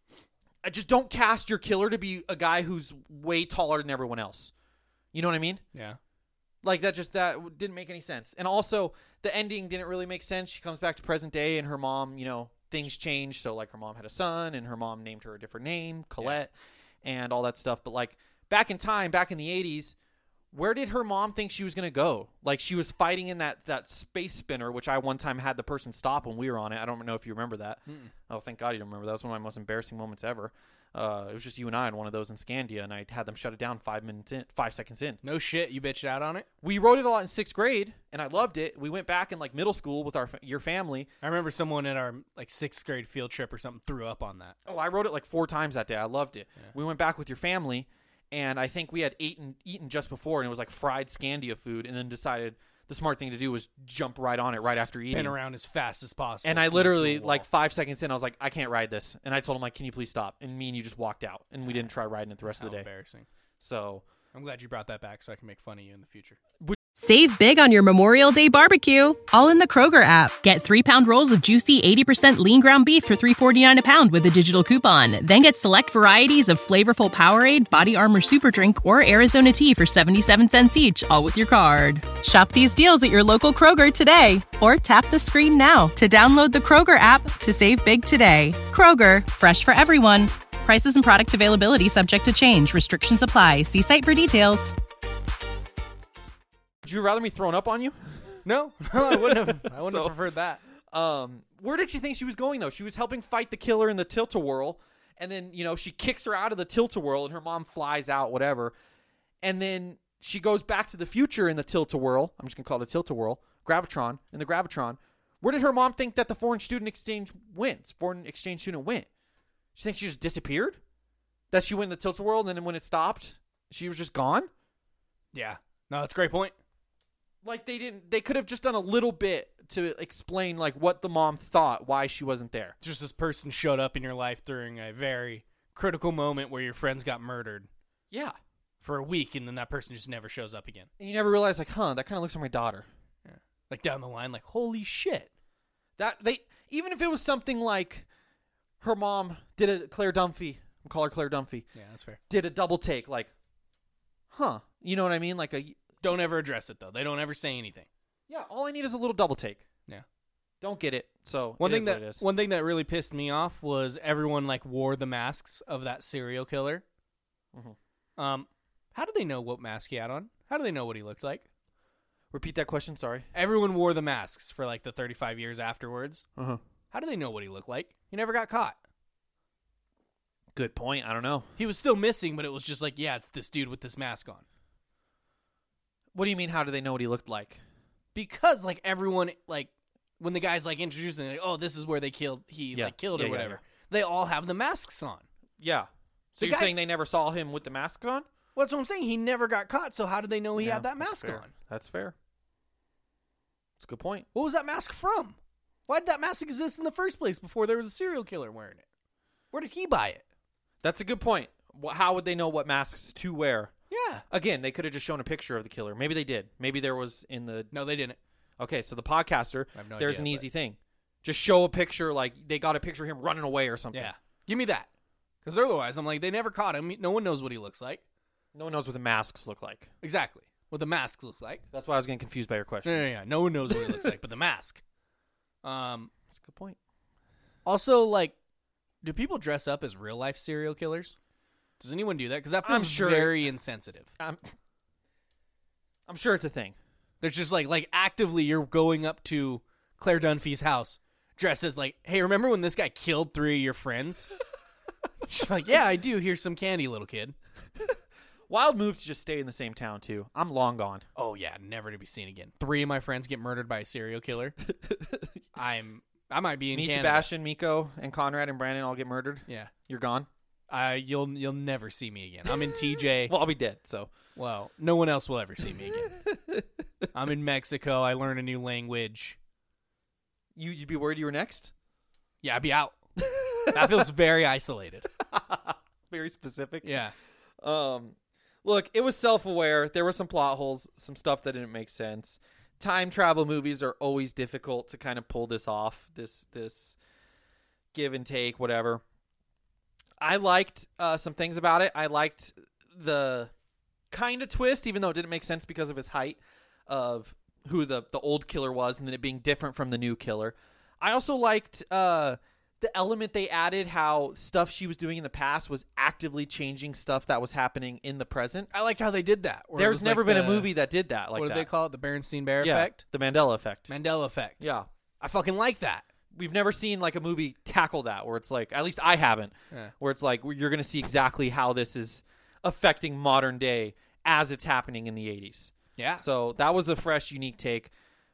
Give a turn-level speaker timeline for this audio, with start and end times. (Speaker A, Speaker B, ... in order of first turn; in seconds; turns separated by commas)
Speaker A: 0.6-4.5, Speaker A: 5.1-5.6, Speaker B: 5.7-6.0, Speaker A: 6.6-16.5, Speaker A: 17.0-19.9, Speaker A: 20.5-35.2, Speaker B: 35.2-36.5, Speaker A: 36.6-41.1, Speaker B: 41.2-44.5, Speaker A: 44.6-55.4, Speaker B: 54.7-57.5, Speaker A: 56.4-62.9, Speaker B: 61.6-61.9, Speaker B: 62.4-63.3, Speaker A: 63.6-64.0, Speaker B: 64.3-66.4, Speaker C: 67.0-94.7, Speaker A: 96.8-98.4, Speaker B: 98.4-100.6, Speaker A: 98.9-100.2, Speaker A: 100.9-108.7, Speaker A: 109.4-119.1, Speaker A: 119.7-120.8, Speaker A: 121.5-124.5, Speaker B: 125.3-126.5, Speaker A: 127.4-132.7, Speaker B: 132.8-137.7, Speaker A: 138.1-138.4, Speaker B: 138.8-140.9, Speaker A: 141.0-142.9, Speaker B: 143.2-145.3, Speaker A: 146.0-148.1, Speaker A: 148.8-151.7, Speaker B: 151.7-152.2, Speaker A: 152.3-153.3, Speaker A: 154.3-155.8, Speaker B: 156.0-157.9, Speaker A: 158.3-159.6, Speaker A: 160.6-162.2, Speaker B: 161.6-166.8, Speaker B: 168.2-171.4, Speaker A: 172.3-173.3, Speaker B: 173.3-176.2, Speaker A: 176.3-176.6, Speaker B: 176.9-178.8, Speaker A: 180.5-181.5, Speaker B: 181.6-184.4, Speaker A: 186.1-187.6, Speaker B: 188.1-195.2, Speaker A: 192.7-193.6, Speaker A: 195.6-198.3, Speaker B: 196.4-196.7, Speaker B: 198.6-201.5, Speaker A: 200.6-202.1, Speaker A: 203.8-204.3, Speaker B: 204.3-208.8, Speaker B: 209.5-210.2, Speaker A: 210.8-213.7, Speaker B: 213.9-214.2, Speaker A: 214.3-217.7, Speaker B: 217.7-218.2, Speaker A: 218.6-224.1, Speaker B: 219.7-220.5, Speaker B: 223.9-224.9, Speaker B: 225.4-228.0, Speaker A: 228.5-229.9, Speaker B: 230.0-231.6, Speaker A: 231.7-233.1, Speaker B: 232.8-234.8, Speaker A: 233.7-234.1, Speaker B: 235.6-236.1, Speaker A: 236.3-236.8, Speaker B: 237.6-238.3, Speaker B: 239.0-241.2, Speaker B: 241.8-244.1, Speaker A: 242.6-243.5, Speaker A: 244.2-244.5, Speaker A: 246.1-246.8, Speaker B: 247.2-254.3, Speaker B: 255.2-257.4, Speaker A: 258.5-261.0, Speaker B: 261.1-264.6, Speaker A: 264.7-265.4, Speaker B: 265.5-267.3, Speaker A: 266.7-270.3, Speaker B: 269.5-269.7, Speaker B: 270.7-273.3, Speaker A: 273.2-274.1, Speaker B: 274.3-276.1, Speaker A: 276.1-276.6, Speaker B: 277.1-279.4, Speaker A: 280.6-281.7, Speaker B: 282.4-283.0, Speaker A: 283.2-284.1, Speaker B: 283.6-285.1, Speaker A: 285.2-286.9, Speaker B: 286.8-287.1, Speaker A: 287.6-297.0, Speaker A: 297.9-299.0, Speaker A: 300.2-303.5, Speaker A: 304.1-318.7, Speaker B: 318.7-320.7, Speaker A: 319.8-321.7, Speaker B: 321.3-323.0, Speaker A: 322.6-323.9, Speaker B: 323.9-324.6, Speaker A: 324.6-324.9, Speaker B: 325.2-326.1, Speaker A: 326.3-337.9, Speaker B: 336.0-336.2